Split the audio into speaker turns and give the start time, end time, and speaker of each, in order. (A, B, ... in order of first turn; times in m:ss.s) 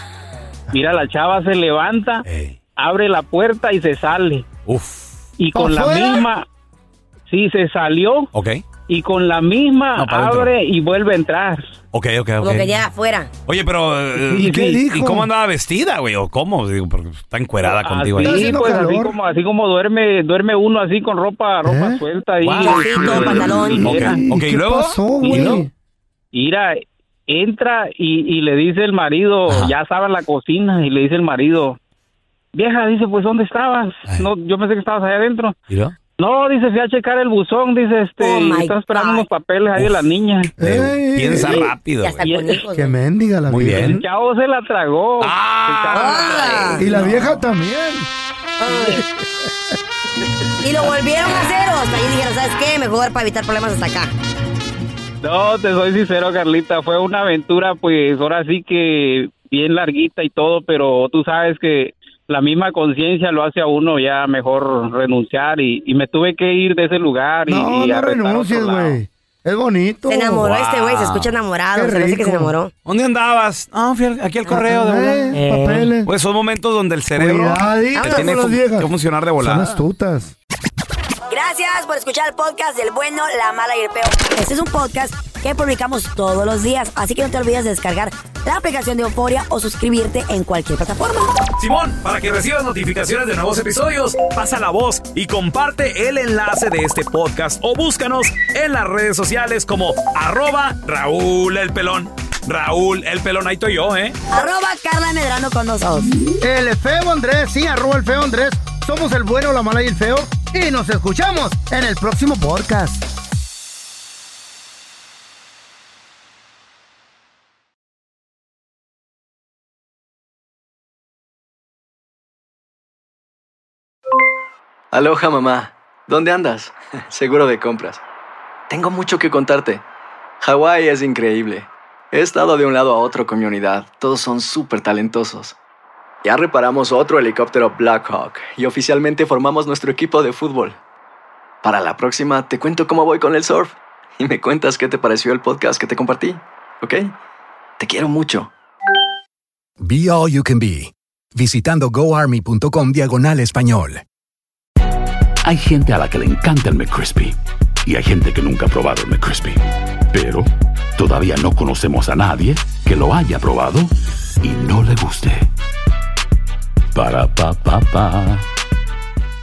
0:00.7-0:02.2 A
0:02.2-0:02.5 B
0:02.8-0:04.4 A
0:04.7-0:05.2 B
0:05.4-0:06.4 A
0:05.5-0:06.2 C
0:07.3-0:08.3 A
0:08.3-0:08.6 B
0:08.9-0:11.7 A
0:10.0-0:10.5 B
0:11.9-0:12.7 B
0:12.4-0:13.3 D
0:13.5-0:18.4 B
0:14.2-0:15.3 C
0:14.5-0:14.8 A
0:17.6-0:24.1 A
0:18.2-0:19.1 C
0:21.6-0:22.0 C
0:22.4-0:25.6 B
0:22.6-0:24.0 D
0:22.7-0:25.7 C
0:25.2-0:25.6 A
0:26.3-0:31.8 A
0:29.5-0:29.7 B
0:32.5-0:35.5 A
0:36.2-0:40.5 A
0:38.2-0:39.3 D
0:40.6-0:41.7 C
0:40.6-0:42.3 B
0:42.0-0:43.0 D
0:42.2-0:42.6 A
0:42.7-0:44.0 C
0:43.5-0:44.0 B
0:43.8-0:46.6 A
0:45.2-0:47.1 B
0:45.9-0:46.9 D
0:46.8-0:48.1 C
0:48.6-0:49.0 D
0:50.6-0:54.1 D
0:55.2-1:09.0 A
1:07.5-1:10.4 C
1:10.1-1:12.7 D
1:10.4-1:11.4 B
1:11.7-1:12.5 C
1:12.8-1:15.4 B
1:14.5-1:16.1 C
1:15.3-1:15.9 D
1:16.0-1:19.8 B
1:17.2-1:18.9 C
1:17.9-1:18.4 D
1:19.4-1:20.3 C
1:21.3-1:31.3 D
1:31.6-1:44.2 B
1:44.3-1:46.1 D
1:46.4-1:53.0 C
2:04.9-2:08.0 E
2:08.7-2:09.8 E
2:10.4-2:15.5 E
2:16.2-2:20.8 E
2:21.6-2:27.1 E
2:27.8-2:28.5 E
2:29.8-2:34.0 F
2:35.4-2:45.5 G
2:46.9-2:48.4 G